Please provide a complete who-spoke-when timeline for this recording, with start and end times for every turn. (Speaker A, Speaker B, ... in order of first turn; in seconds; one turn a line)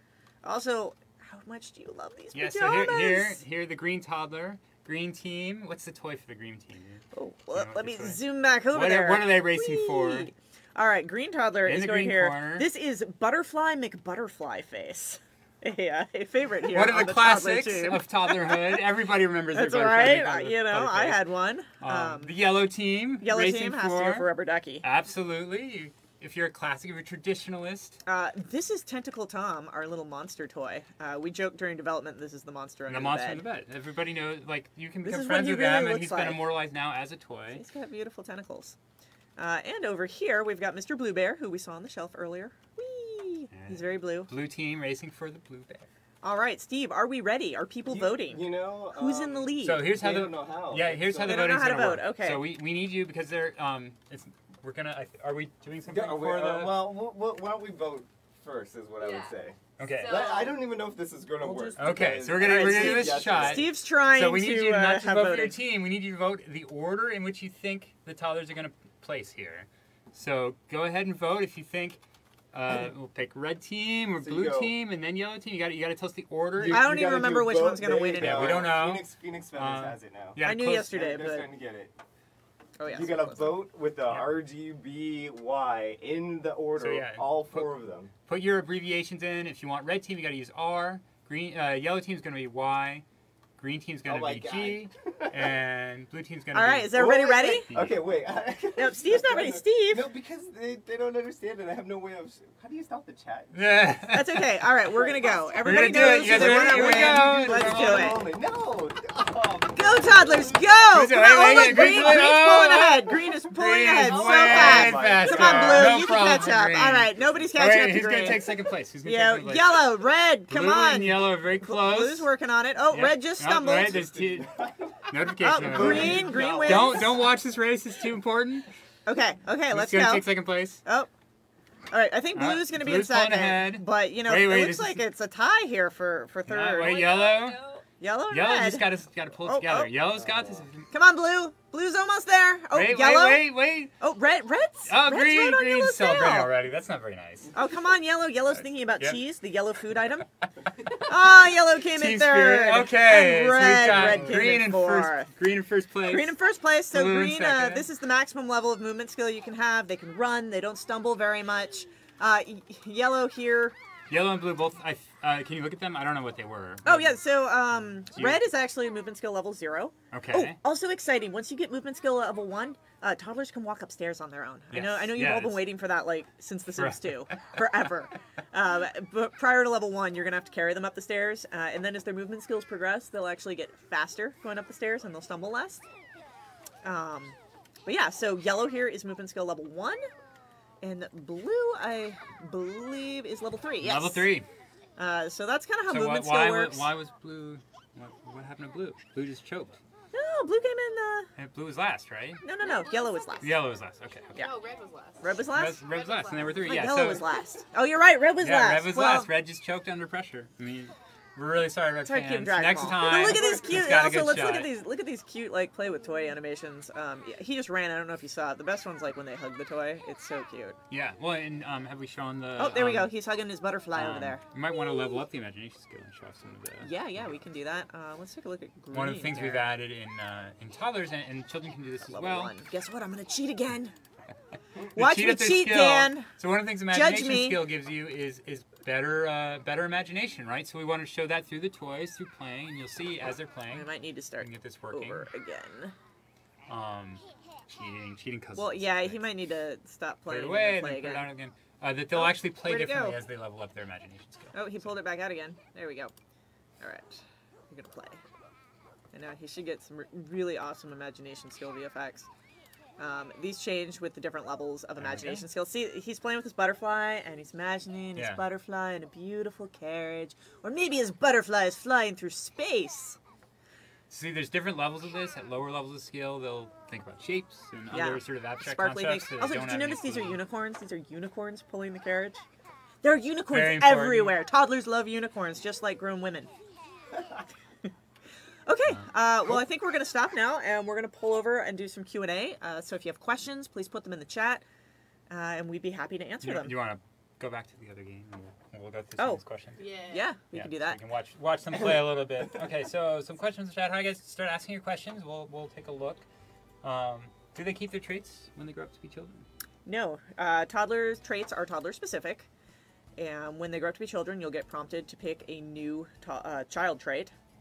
Speaker A: 0.4-3.4
Speaker B: 2.3-10.3
Speaker A: 7.1-18.8
Speaker B: 11.7-12.7
Speaker B: 16.7-21.2
Speaker A: 19.5-22.4
Speaker B: 21.8-24.3
Speaker A: 23.2-24.9
Speaker B: 24.8-28.0
Speaker A: 28.1-33.4
Speaker B: 32.9-37.6
Speaker A: 35.0-36.5
Speaker A: 37.5-38.8
Speaker A: 39.4-44.3
Speaker B: 43.5-45.9
Speaker A: 46.2-49.9
Speaker C: 47.9-51.6
Speaker B: 49.6-56.9
Speaker A: 51.2-52.5
Speaker C: 55.9-63.7
Speaker D: 59.0-60.8
Speaker B: 59.8-60.4
Speaker D: 61.5-61.8
Speaker B: 61.8-72.0
Speaker A: 62.2-65.6
Speaker B: 72.5-76.9
Speaker C: 74.2-74.8
Speaker C: 76.6-81.9
Speaker A: 76.7-78.7
Speaker B: 78.2-81.0
Speaker A: 80.4-81.5
Speaker A: 82.8-83.7
Speaker C: 82.8-88.1
Speaker B: 84.1-84.4
Speaker B: 86.8-87.7
Speaker B: 88.3-93.0
Speaker B: 93.6-97.1
Speaker C: 94.0-95.6
Speaker A: 96.5-97.7
Speaker C: 96.9-103.7
Speaker B: 97.7-98.0
Speaker A: 98.8-100.1
Speaker B: 103.5-104.5
Speaker A: 104.1-108.2
Speaker C: 104.9-110.7
Speaker B: 105.6-108.2
Speaker A: 109.7-124.1
Speaker B: 110.9-119.9
Speaker C: 111.6-112.2
Speaker C: 114.0-116.1
Speaker B: 120.5-122.3
Speaker B: 122.9-124.5
Speaker C: 124.2-127.3
Speaker B: 125.1-128.7
Speaker A: 125.4-127.2
Speaker A: 129.1-130.3
Speaker B: 129.7-130.8
Speaker A: 130.8-131.1
Speaker A: 131.9-137.1
Speaker B: 132.3-135.1
Speaker B: 136.5-137.6
Speaker D: 136.8-137.8
Speaker A: 138.0-139.9
Speaker B: 138.3-140.9
Speaker C: 140.2-140.7
Speaker A: 140.9-146.5
Speaker B: 142.7-143.9
Speaker B: 144.9-147.5
Speaker A: 147.6-150.3
Speaker B: 150.8-156.4
Speaker A: 150.9-155.3
Speaker A: 156.0-163.8
Speaker B: 156.9-157.9
Speaker B: 164.1-167.4
Speaker A: 166.8-185.8
Speaker B: 167.9-168.5
Speaker B: 170.1-170.6
Speaker B: 174.7-175.7
Speaker B: 176.8-177.5
Speaker A: 186.8-190.1
Speaker A: 190.8-194.3
Speaker B: 193.8-194.5
Speaker A: 195.0-196.9
Speaker B: 195.9-199.8
Speaker A: 200.1-201.3
Speaker B: 201.4-202.4
Speaker A: 202.4-203.6
Speaker B: 203.4-204.6
Speaker D: 204.4-205.3
Speaker A: 205.2-205.8
Speaker B: 205.5-207.3
Speaker D: 205.9-206.9
Speaker A: 206.6-209.3
Speaker B: 208.4-214.7
Speaker A: 212.1-220.8
Speaker B: 220.9-223.1
Speaker A: 222.6-224.4
Speaker B: 223.9-227.4
Speaker A: 226.8-229.7
Speaker B: 228.9-232.5
Speaker A: 232.1-233.9
Speaker B: 234.9-243.9
Speaker A: 234.9-236.3
Speaker A: 236.9-237.6
Speaker A: 243.7-245.9
Speaker B: 244.4-245.3
Speaker B: 246.7-249.3
Speaker A: 248.6-251.3
Speaker B: 250.3-254.9
Speaker A: 252.1-253.2
Speaker A: 254.5-256.1
Speaker A: 256.8-258.2
Speaker A: 259.1-262.3
Speaker A: 263.0-273.2
Speaker B: 265.0-265.5
Speaker B: 268.1-268.4
Speaker B: 274.1-280.4
Speaker A: 277.9-282.4
Speaker A: 283.0-286.5
Speaker B: 283.5-284.4
Speaker A: 288.6-294.6
Speaker B: 288.9-289.6
Speaker A: 295.3-296.7
Speaker B: 296.4-299.9
Speaker D: 299.8-300.2
Speaker A: 300.1-301.0
Speaker B: 300.5-306.2
Speaker B: 306.8-309.5
Speaker A: 309.9-312.5
Speaker A: 313.2-317.3